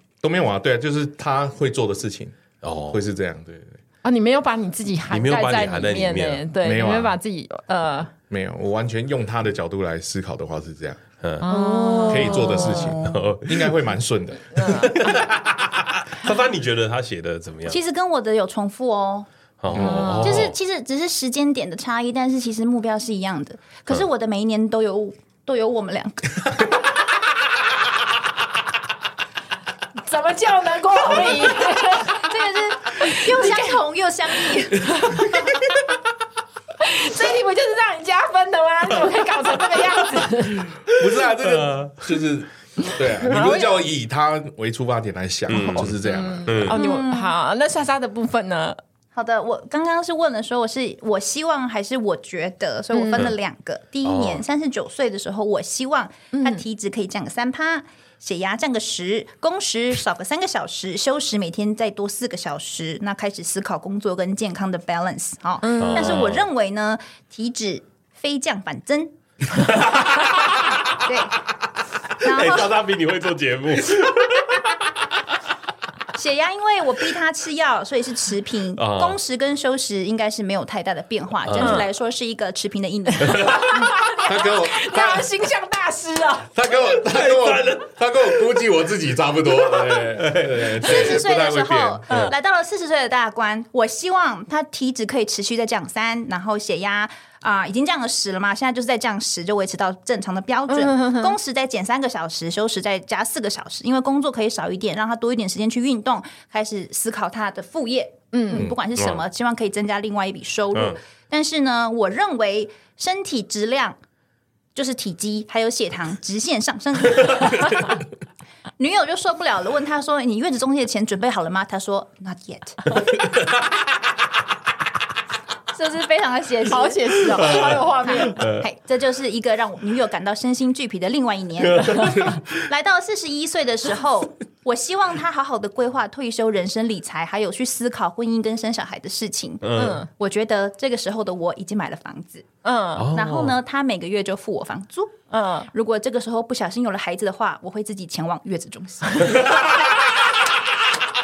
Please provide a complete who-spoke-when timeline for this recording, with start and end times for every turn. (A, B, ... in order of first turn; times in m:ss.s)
0:00.2-0:02.4 A
0:02.6-0:03.0 B
0:02.9-0:03.8 A
0:04.0-0:08.1 C
0:05.1-0:06.4 B
0:06.6-0:07.2 A
0:08.3-0:11.0 A
0:11.2-0:11.5 B
0:11.4-0:13.0 C
0:11.5-0:12.6 D
0:12.1-0:15.2 A
0:12.1-0:13.8 B
0:14.5-0:15.1 C
0:14.7-0:17.8 B
0:17.7-0:19.3 D
0:19.6-0:20.6 B
0:19.7-0:20.4 A
0:19.7-0:20.4 C
0:20.2-0:26.5 D
0:30.0-0:32.4 C
0:31.9-0:35.3 D
0:33.0-0:33.8 C
0:34.5-0:35.3 C
0:36.8-0:40.7 C
0:40.8-0:46.7 A
0:40.9-0:42.2 B
0:43.2-0:43.8 C
0:45.5-0:46.8 B
0:45.6-0:48.8 C
0:46.7-0:47.3 D
0:49.2-1:09.1 D
0:52.9-0:53.3 C
0:54.0-0:54.4 B
0:56.3-0:56.6 C
1:05.6-1:06.3 C
1:05.8-1:06.5 B
1:09.6-1:11.0 B
1:11.0-1:11.4 D
1:12.2-1:12.8 D
1:12.2-1:14.7 B
1:16.1-1:23.9 D
1:18.8-1:19.2 B
1:21.5-1:21.9 B
1:21.6-1:21.9 C
1:23.2-1:23.7 B
1:23.4-1:26.5 C
1:24.2-1:25.3 A
1:26.5-1:32.3 A
1:26.8-1:27.9 B
1:29.6-1:31.2 B
1:30.8-1:54.0 D
1:32.1-1:32.3 B
1:40.7-1:41.4 C
1:48.3-1:48.7 C
1:48.6-1:49.2 B
1:54.8-1:58.0 D
1:58.8-2:02.9 D
2:05.7-2:22.5 D
2:06.7-2:08.4 C
2:07.4-2:07.8 B
2:08.3-2:08.6 B
2:11.6-2:12.5 B
2:19.6-2:20.0 B
2:19.8-2:20.1 C
2:22.6-2:23.1 C
2:23.0-2:23.6 B
2:23.1-2:29.6 D
2:25.3-2:25.7 C
2:29.3-2:30.3 B